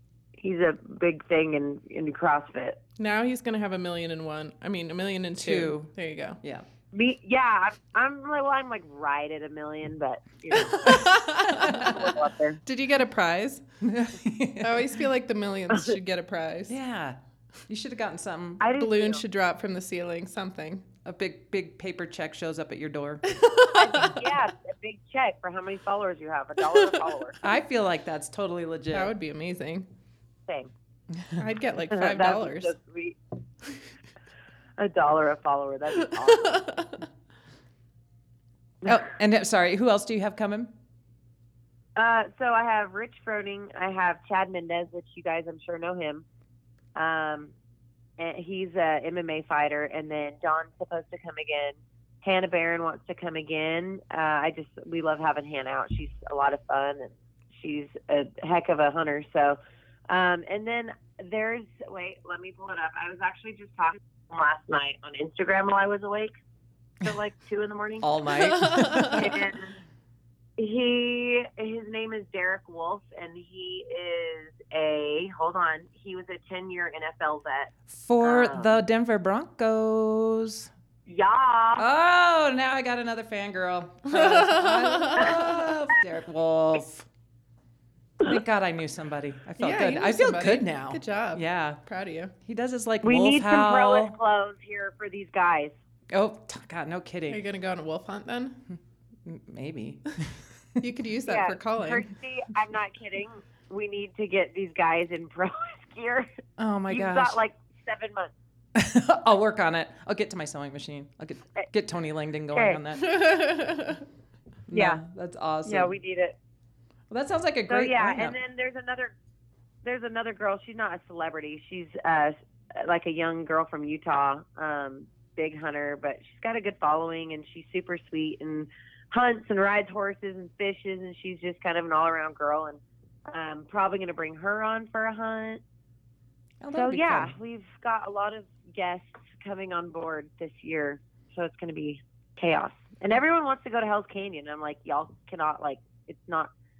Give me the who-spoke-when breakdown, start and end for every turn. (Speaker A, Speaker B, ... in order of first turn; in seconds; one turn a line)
Speaker A: 0.4-2.8
Speaker B: 3.0-6.4
Speaker C: 5.3-5.9
Speaker A: 6.9-12.6
Speaker B: 10.5-11.9
Speaker C: 10.8-12.0
Speaker B: 12.6-13.6
Speaker C: 13.8-15.0
Speaker B: 14.6-16.8
Speaker C: 16.7-18.7
Speaker A: 18.6-19.2
Speaker B: 18.7-20.9
Speaker C: 21.0-23.2
Speaker B: 23.3-24.1
Speaker A: 23.7-27.4
Speaker C: 27.4-29.1
Speaker B: 28.9-29.9
Speaker B: 31.4-32.7
Speaker A: 31.9-33.2
Speaker A: 34.8-36.8
Speaker B: 36.5-36.8
Speaker C: 38.8-40.7
Speaker A: 42.0-46.2
Speaker A: 46.9-47.5
Speaker A: 48.2-59.6
Speaker A: 60.1-66.3
Speaker A: 67.0-68.1
Speaker C: 68.0-69.4
Speaker B: 68.4-69.2
Speaker A: 69.0-69.8
Speaker A: 70.6-78.8
Speaker C: 77.9-80.7
Speaker A: 81.1-81.8
Speaker C: 81.8-87.0
Speaker B: 84.1-85.4
Speaker C: 88.2-91.8
Speaker B: 89.6-92.3
Speaker C: 92.4-94.2
Speaker A: 93.0-95.7
Speaker C: 96.1-97.4
Speaker B: 97.3-98.6
Speaker C: 99.2-100.8
Speaker B: 100.8-102.1
Speaker A: 101.2-106.3
Speaker C: 106.6-107.4
Speaker A: 106.9-108.3
Speaker C: 108.7-113.2
Speaker A: 112.5-112.8
Speaker B: 113.0-114.0
Speaker C: 114.7-115.9
Speaker A: 114.7-115.0
Speaker A: 115.6-116.3
Speaker C: 117.1-118.4
Speaker A: 117.7-119.2
Speaker A: 119.8-135.6
Speaker C: 136.6-137.3
Speaker A: 136.7-146.5